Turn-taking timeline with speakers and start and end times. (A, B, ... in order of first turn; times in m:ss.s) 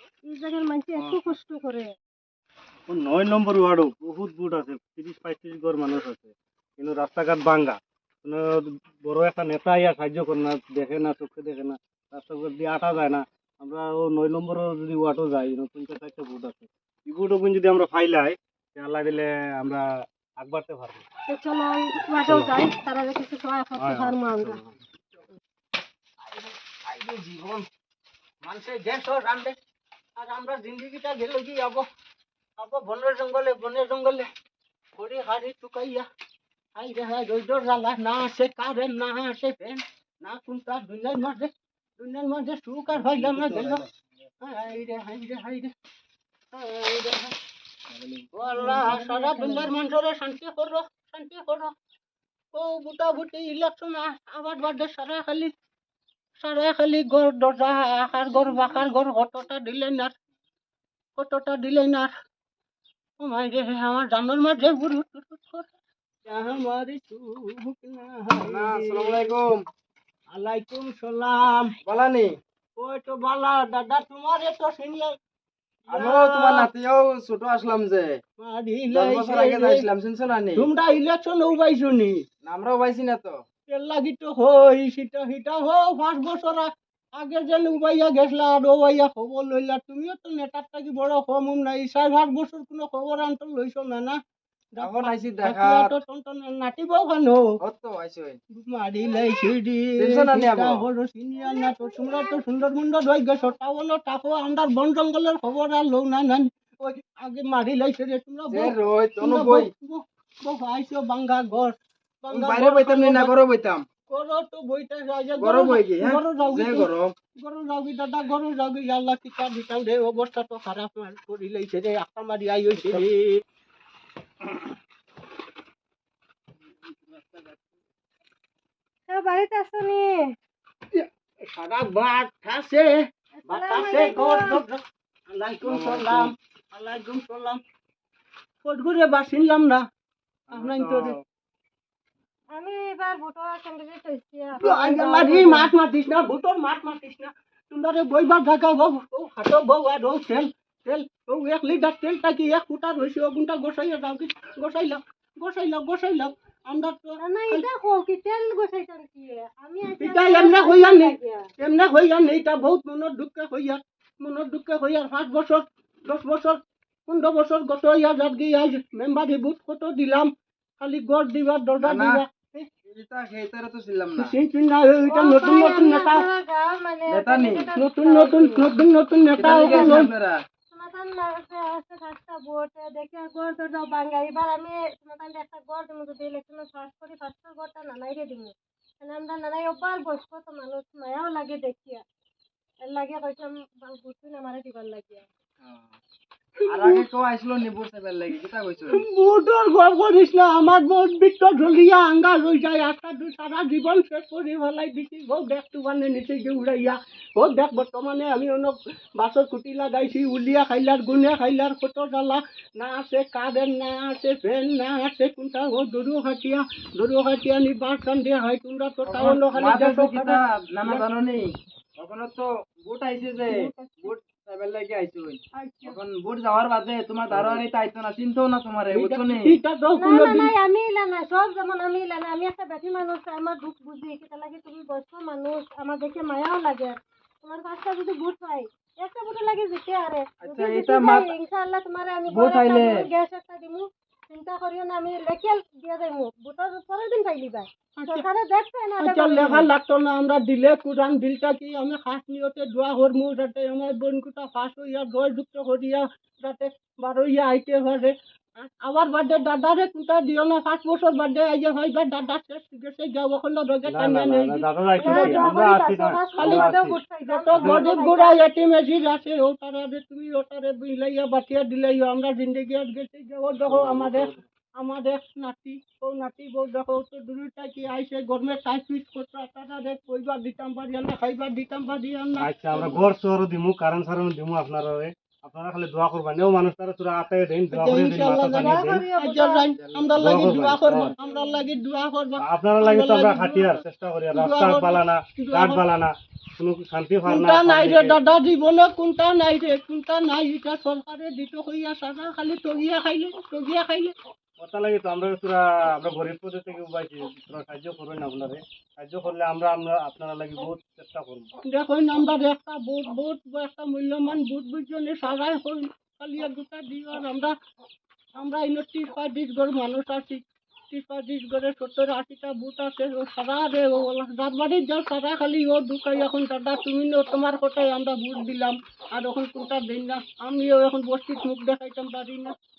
0:00.2-0:01.9 A
0:02.9-0:19.8 B
0:20.4-0:21.0 B
0:21.3-0:24.6 A
0:22.2-0:22.6 B
0:23.8-0:24.8 B
0:26.2-0:27.6 C
0:28.4-0:29.5 C
0:30.2-0:31.8 C
0:32.6-0:34.3 C
0:34.9-0:36.0 C
0:36.8-0:43.8 C
0:43.2-0:43.7 B
0:44.4-0:45.7 C
0:46.5-0:47.3 C
0:48.3-0:51.7 C
0:48.5-0:49.7 A
0:52.5-0:55.5 C
0:56.4-1:00.1 C
1:01.2-1:02.1 C
1:03.2-1:05.7 C
1:06.2-1:09.3 C
1:08.4-1:09.6 D
1:10.3-1:11.7 C
1:11.8-1:12.3 D
1:12.8-1:15.1 C
1:15.9-1:16.7 C
1:15.9-1:18.2 D
1:18.4-1:19.9 C
1:18.9-1:20.7 D
1:20.5-1:22.2 C
1:22.4-1:23.3 D
1:23.7-1:34.2 C
1:34.8-1:37.4 C
1:34.8-1:35.9 D
1:37.6-1:38.4 D
1:38.5-1:53.3 C
1:40.0-1:40.8 D
1:41.4-1:42.2 A
1:48.5-1:49.7 D
1:52.3-1:53.8 D
1:54.1-1:56.9 C
1:55.4-1:57.1 D
1:57.4-2:03.4 C
2:09.1-2:10.4 A
2:10.9-2:17.6 C
2:13.4-2:14.6 A
2:15.9-2:16.1 D
2:18.6-2:19.8 C
2:20.5-2:21.2 C
2:20.5-2:21.2 D
2:22.5-2:25.7 A
2:24.6-2:37.6 C
2:37.2-2:41.5 A
2:40.0-2:52.7 C
2:51.8-2:52.2 D
2:52.9-2:54.3 D
2:54.1-2:56.3 C
2:55.1-2:58.7 A
2:57.1-2:57.6 D
2:57.7-3:00.1 C
2:59.4-3:00.4 D
2:59.5-2:59.9 A
3:00.7-3:12.0 A
3:12.8-3:15.2 A
3:15.6-3:15.9 D
3:16.6-3:17.0 C
3:16.7-3:19.0 D
3:18.9-3:41.0 C
3:39.0-3:49.6 D
3:43.5-3:44.1 C
3:45.5-3:46.0 C
3:47.3-3:47.6 B
3:48.9-3:50.5 C
3:50.0-4:09.7 A
4:00.4-4:01.3 D
4:02.3-4:03.0 D
4:08.0-4:08.2 C
4:09.0-4:25.6 C
4:23.8-4:27.0 B
4:25.0-4:28.4 A
4:26.4-4:26.7 C
4:27.3-4:43.0 C
4:27.5-4:27.8 B
4:33.6-4:34.4 B
4:42.4-4:49.0 B
4:47.7-4:53.8 C
4:48.6-4:49.6 A
4:49.8-4:51.1 D
4:50.2-4:51.1 B
4:52.4-4:58.2 B
4:54.3-4:55.8 C
4:57.2-5:04.1 C
5:04.6-5:11.5 B
5:11.6-5:17.5 C
5:18.4-5:20.4 C
5:20.9-5:32.5 C